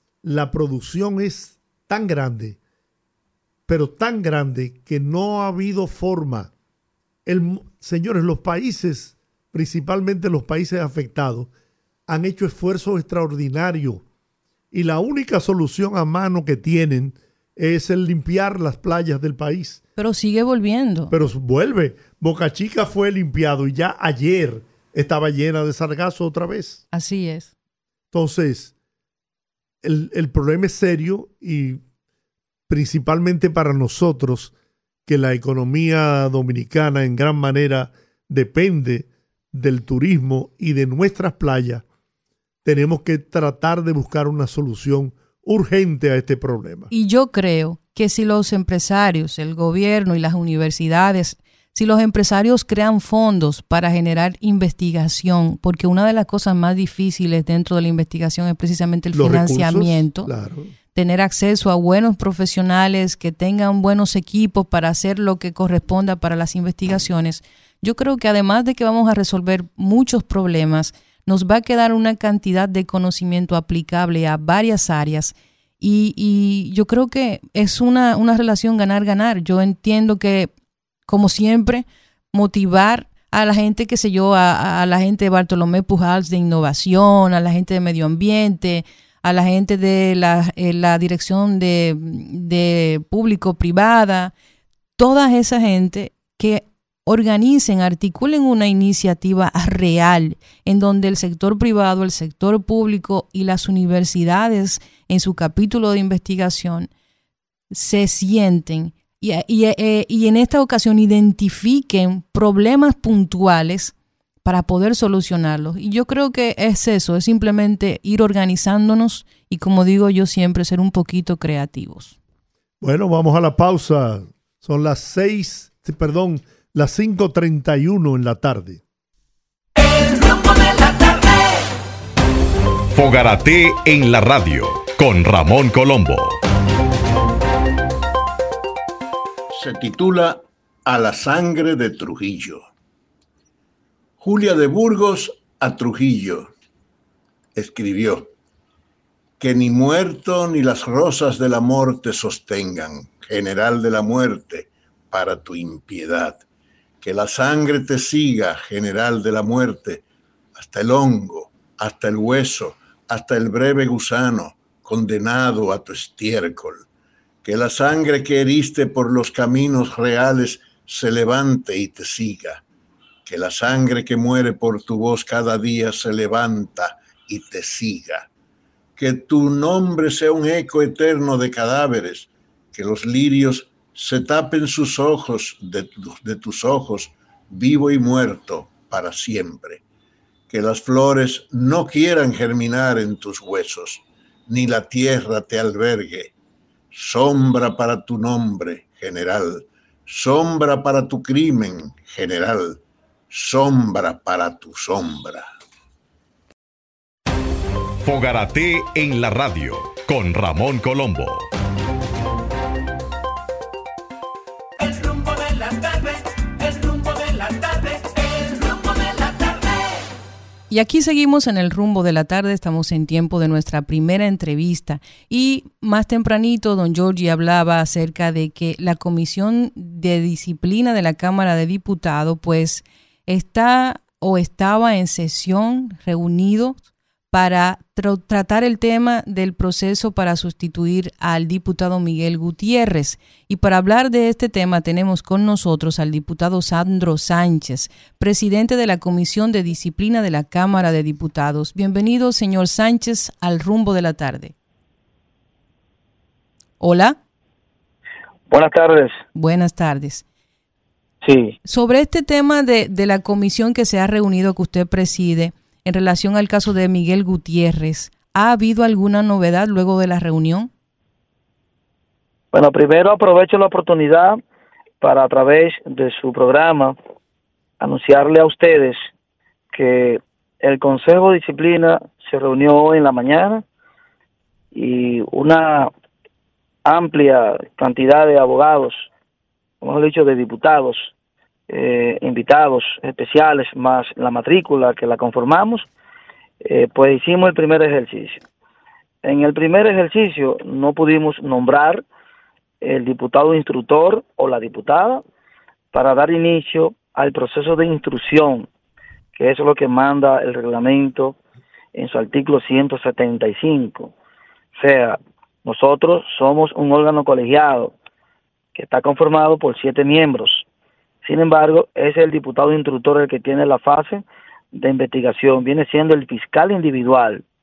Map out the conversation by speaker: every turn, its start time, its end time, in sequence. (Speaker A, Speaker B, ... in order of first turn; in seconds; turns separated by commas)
Speaker A: 0.2-2.6, Speaker A: 3.7-6.5, Speaker A: 7.3-11.5, Speaker A: 12.1-14.0, Speaker A: 14.7-19.8, Speaker B: 20.0-21.1, Speaker A: 21.1-26.8, Speaker B: 26.9-27.5, Speaker A: 28.1-28.7, Speaker A: 29.8-31.8, Speaker A: 32.7-34.5, Speaker A: 35.1-41.8, Speaker A: 42.6-46.9, Speaker B: 46.9-60.3, Speaker A: 59.1-60.7, Speaker B: 60.9-80.5, Speaker B: 81.1-94.3, Speaker B: 95.0-106.9, Speaker B: 107.7-122.2, Speaker A: 122.8-128.8, Speaker C: 132.9-136.4, Speaker D: 139.5-142.7, Speaker D: 144.2-146.5, Speaker D: 147.6-148.3, Speaker D: 149.4-156.4, Speaker D: 157.0-160.0, Speaker D: 160.6-166.9, Speaker D: 167.4-172.6, Speaker D: 173.2-178.3, Speaker D: 179.0-189.8, Speaker D: 190.5-196.3, Speaker D: 196.9-205.5, Speaker C: 208.0-211.5, Speaker B: 220.7-254.5, Speaker B: 256.8-257.2, Speaker E: 258.5-259.2, Speaker B: 259.3-260.2, Speaker E: 261.2-261.6, Speaker B: 261.6-270.7, Speaker E: 272.5-274.4, Speaker E: 275.0-277.0, Speaker E: 277.8-279.1, Speaker E: 279.7-283.6, Speaker E: 284.7-285.9, Speaker E: 286.9-289.1, Speaker E: 289.8-291.1, Speaker E: 291.7-295.9, Speaker E: 296.6-298.4, Speaker E: 299.2-302.0, Speaker E: 302.8-305.2, Speaker E: 305.9-308.7, Speaker E: 309.4-311.4, Speaker E: 311.9-314.1, Speaker E: 314.8-317.9, Speaker E: 318.8-320.7, Speaker E: 321.2-327.4